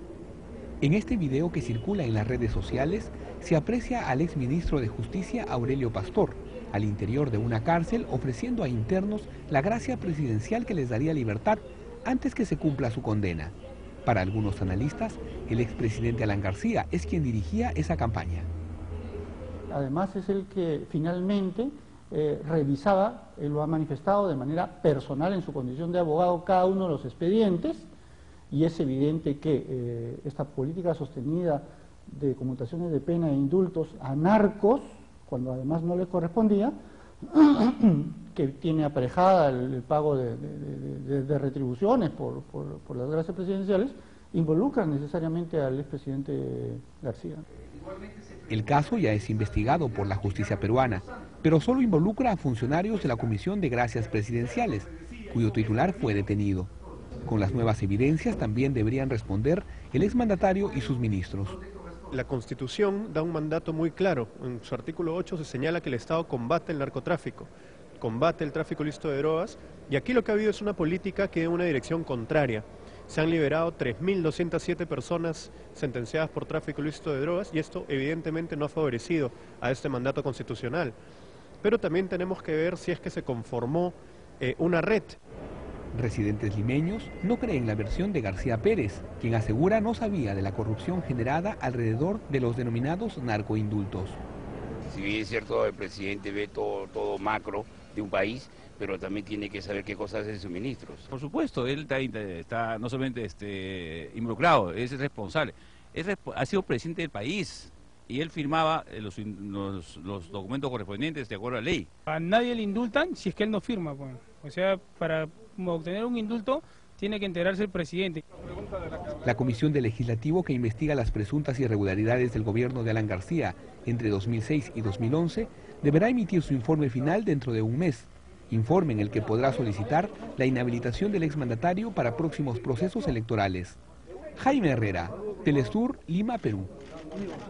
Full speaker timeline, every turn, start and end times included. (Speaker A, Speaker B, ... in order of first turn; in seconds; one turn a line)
Speaker A: 0.8-13.5
Speaker A: 14.0-18.5
Speaker B: 19.7-27.9
Speaker B: 28.5-36.8
Speaker B: 37.2-47.4
Speaker A: 48.5-56.7
Speaker A: 57.2-61.6
Speaker C: 62.1-81.0
Speaker C: 81.6-85.2
Speaker A: 85.9-94.2
Speaker D: 94.9-101.1
Speaker E: 101.1-111.9
Speaker F: 112.1-118.2
Speaker A: 119.2-133.8
Speaker A: 134.4-136.7